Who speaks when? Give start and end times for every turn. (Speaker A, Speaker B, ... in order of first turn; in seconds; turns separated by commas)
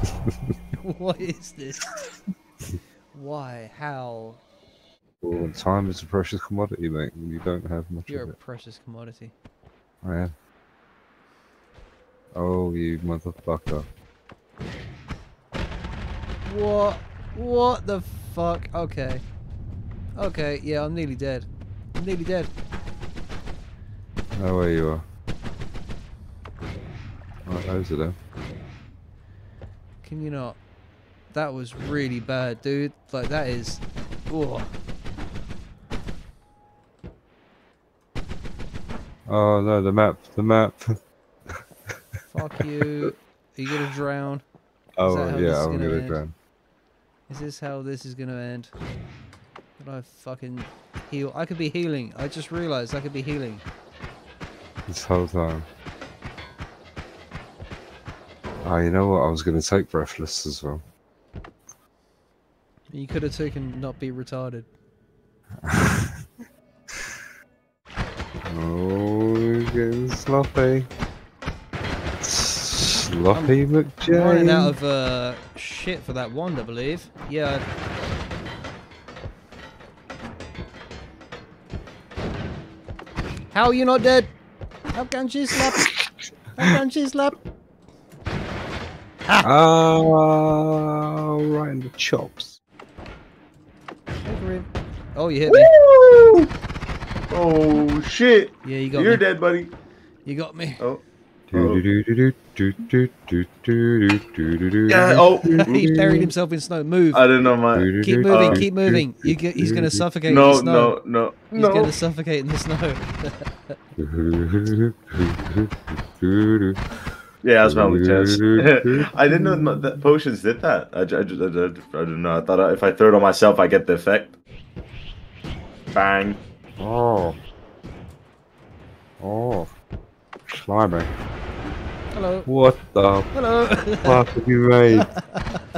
Speaker A: 0.3-0.5, Speaker B: 0.7-1.9, Speaker B: 3.1-4.4, Speaker A: 5.2-8.3, Speaker B: 8.1-9.3, Speaker A: 10.0-10.3, Speaker A: 12.3-13.9, Speaker B: 16.4-19.2, Speaker B: 20.2-22.5, Speaker A: 24.4-25.1, Speaker A: 27.5-28.2, Speaker B: 30.0-30.6, Speaker B: 31.3-34.7, Speaker A: 39.3-41.0, Speaker A: 41.5-42.2, Speaker B: 42.3-44.4, Speaker A: 45.0-46.4, Speaker B: 45.0-46.2, Speaker B: 47.3-48.8, Speaker B: 49.8-53.6, Speaker A: 54.9-55.7, Speaker A: 58.6-60.8, Speaker B: 62.9-64.7, Speaker A: 65.6-66.2, Speaker A: 66.9-67.2, Speaker A: 68.5-70.9, Speaker A: 72.2-74.8, Speaker B: 73.3-77.7, Speaker B: 83.5-84.3, Speaker B: 84.9-85.9, Speaker A: 85.5-86.1, Speaker B: 86.5-87.3, Speaker A: 89.4-92.6, Speaker B: 94.2-95.7, Speaker C: 95.5-96.5, Speaker C: 97.3-99.7, Speaker B: 98.6-99.2, Speaker B: 100.2-100.8, Speaker A: 101.5-106.3, Speaker C: 101.5-101.8, Speaker C: 104.9-106.1, Speaker B: 105.7-107.2, Speaker C: 107.1-108.7, Speaker A: 107.7-110.0, Speaker B: 108.0-111.0, Speaker C: 110.3-111.9, Speaker B: 111.5-113.8, Speaker A: 114.0-116.8, Speaker C: 117.4-124.4, Speaker A: 117.6-119.1, Speaker C: 125.9-126.4, Speaker A: 126.8-127.4, Speaker A: 129.2-129.7, Speaker A: 130.5-131.1, Speaker B: 132.1-132.5, Speaker A: 132.5-133.3, Speaker B: 133.3-134.2, Speaker A: 134.0-135.1, Speaker B: 134.9-135.6